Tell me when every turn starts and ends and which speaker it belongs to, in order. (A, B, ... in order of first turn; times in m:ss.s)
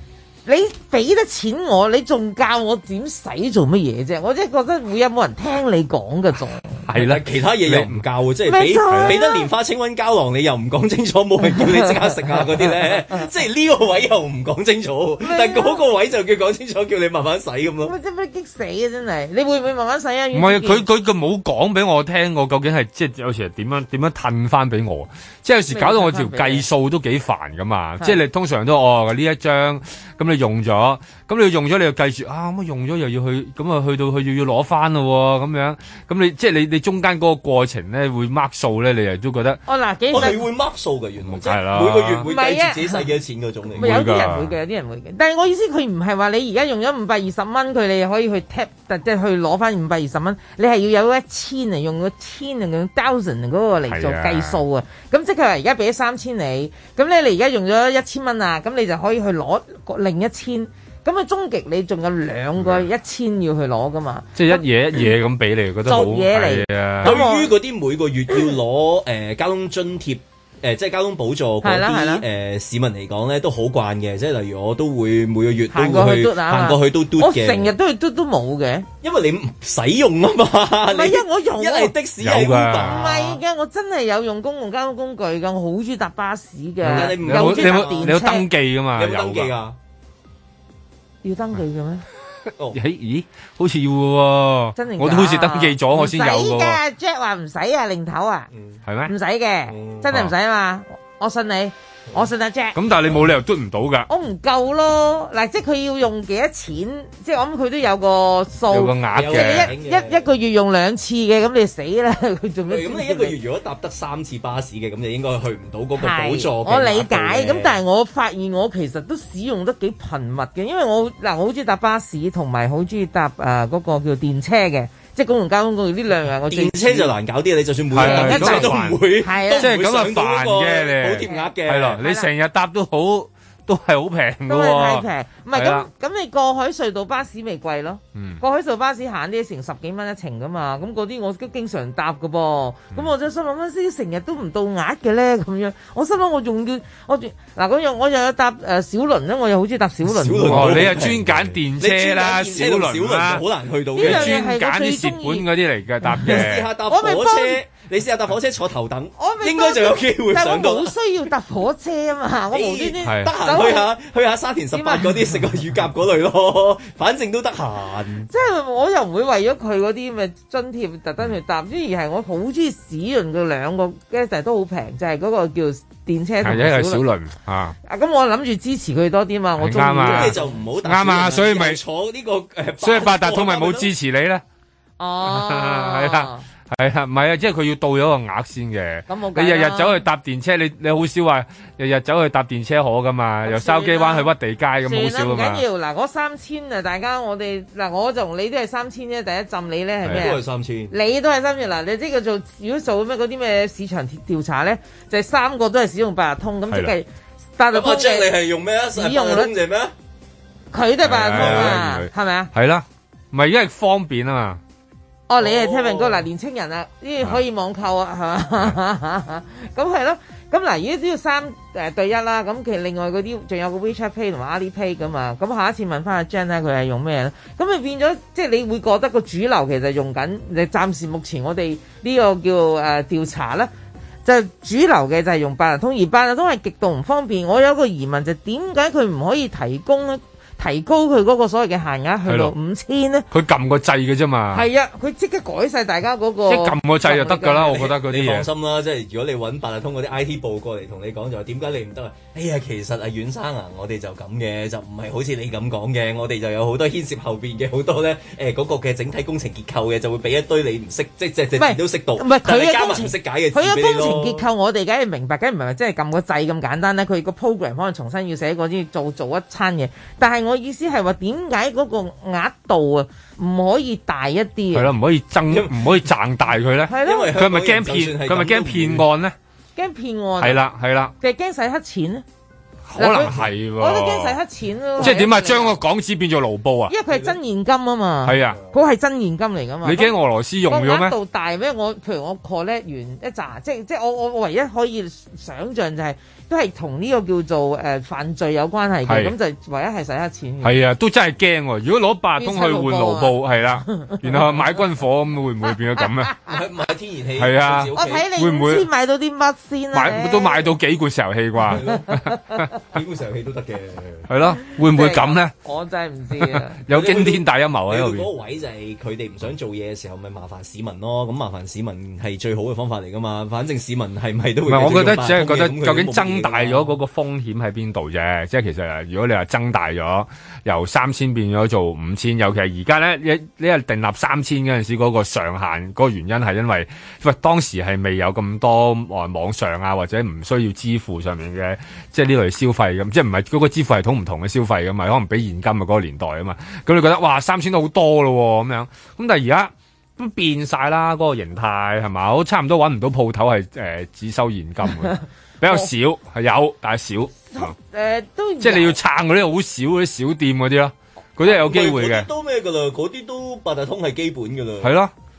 0:00.5-0:06.8 A
0:06.9-0:08.0 B
0:06.9-0:17.9 C
0:08.5-0:09.5 A
0:08.9-0:09.2 B
0:11.5-0:12.1 A
0:15.2-0:15.8 A
0:17.8-0:20.9 A
0:20.3-0:39.6 B
0:25.7-0:26.7 A
0:39.7-0:40.4 A
0:40.1-0:44.0 C
0:41.3-0:42.3 B
0:42.3-0:43.1 A
0:43.7-1:05.1 A
0:43.8-0:44.6 B
0:53.9-0:54.6 B
1:04.4-1:07.2 B
1:05.8-1:07.5 A
1:07.0-1:17.7 C
1:11.6-1:12.2 A
1:15.7-1:18.9 A
1:19.0-1:23.4 C
1:20.9-1:22.0 A
1:22.2-1:23.1 B
1:22.8-1:28.5 A
1:26.8-1:28.3 C
1:26.8-1:29.5 B
1:29.0-1:29.8 C
1:31.2-1:32.0 A
1:32.7-1:36.8 B
1:34.8-1:38.5 A
1:38.5-1:38.8 C
1:38.9-1:39.1 B
1:39.1-1:42.8 A
1:39.7-1:40.1 C
1:42.8-1:44.1 B
1:44.1-1:53.4 A
1:48.7-1:49.7 B
1:49.1-1:50.3 C
1:52.7-1:57.8 C
1:56.0-2:07.1 A
2:06.5-2:12.0 C
2:07.9-2:15.9 B
2:08.0-2:09.7 A
2:11.2-2:12.3 A
2:14.5-2:30.8 A
2:18.2-2:18.4 B
2:30.0-2:34.4 C
2:30.5-2:33.4 B
2:34.0-2:35.5 A
2:34.0-2:36.7 B
2:36.1-2:37.6 A
2:36.2-2:41.0 C
2:39.2-2:43.9 A
2:42.5-2:48.3 C
2:43.0-2:43.3 B
2:44.7-2:45.4 A
2:48.3-2:57.0 A
2:56.4-2:57.8 B
2:57.8-3:00.6 A
2:59.6-3:01.8 B
3:00.0-3:03.9 C
3:02.8-3:04.4 B
3:05.0-3:06.4 A
3:05.2-3:15.6 B
3:09.1-3:10.0 A
3:13.4-3:14.3 A
3:14.8-3:28.3 A
3:20.1-3:20.9 C
3:27.7-3:29.9 C
3:29.0-3:29.5 A
3:30.7-3:32.5 A
3:31.0-3:34.6 B
3:31.2-3:31.8 C
3:35.3-3:53.7 A
3:35.4-3:36.3 C
3:54.2-4:03.3 A
4:02.3-4:02.5 B
4:03.3-4:04.7 B
4:04.5-4:07.9 A
4:06.5-4:08.5 B
4:07.6-4:24.4 C
4:21.6-4:34.9 A
4:34.7-4:39.4 B
4:35.5-4:35.9 C
4:36.9-4:37.3 A
4:36.9-4:39.1 C
4:39.8-4:40.6 A
4:40.4-4:41.1 B
4:41.2-4:42.2 A
4:42.9-4:44.4 B
4:43.0-4:45.8 A
4:45.0-4:46.9 B
4:46.9-4:50.1 A
4:47.1-4:47.4 C
4:48.2-4:48.6 B
4:49.8-4:51.2 B
4:50.7-5:00.8 A
4:59.1-4:59.4 B
5:00.6-5:06.4 B
5:02.4-5:04.7 A
5:06.0-5:06.5 A
5:06.5-5:08.3 C
5:07.4-5:08.9 B
5:07.9-5:10.7 A
5:09.9-5:12.7 B
5:11.6-5:12.1 C
5:12.8-5:14.3 C
5:14.3-5:15.5 B
5:14.8-5:16.8 A
5:16.4-5:18.3 B
5:16.9-5:27.0 C
5:24.7-5:57.7 B
5:57.5-5:59.0 A
5:58.6-6:02.3 B
6:01.4-6:05.0 C
6:04.8-6:05.1 B